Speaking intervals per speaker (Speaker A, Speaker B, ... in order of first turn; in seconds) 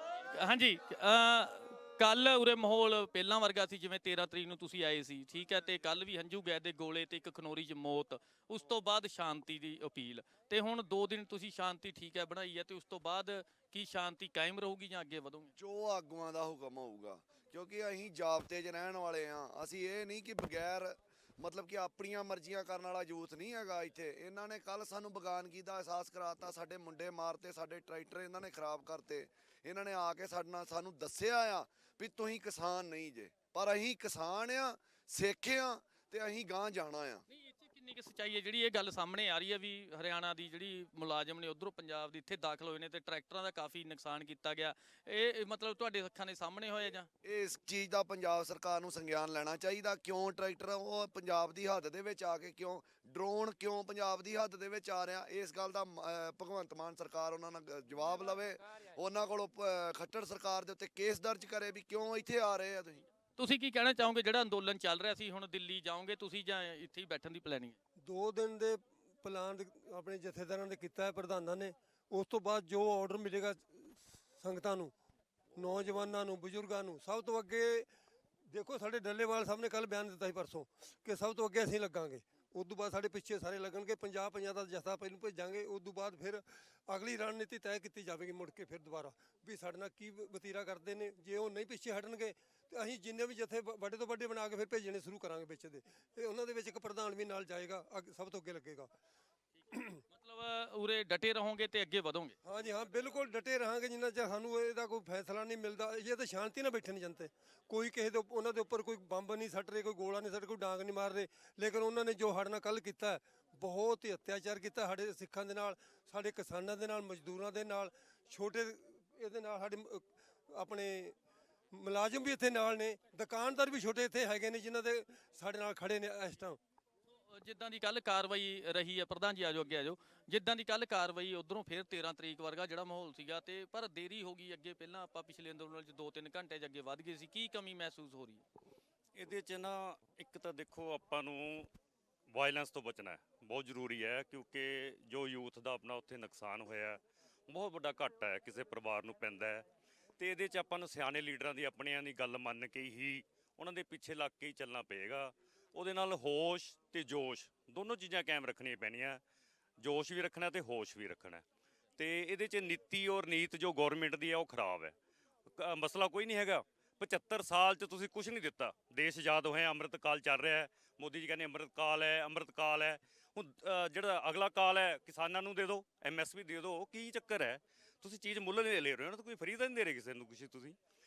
Speaker A: 0.3-15.5, 37.3-47.1, 63.4-67.8, 100.1-102.3, 127.4-138.4
Speaker B: 15.6-37.2, 47.2-63.0
Speaker C: 68.0-74.9, 75.5-77.9, 78.5-98.9, 99.7-100.0, 102.4-121.1, 121.8-126.6
Speaker D: 139.2-141.7, 142.3-149.7, 150.2-159.2, 159.8-161.4, 162.0-164.9, 165.6-180.8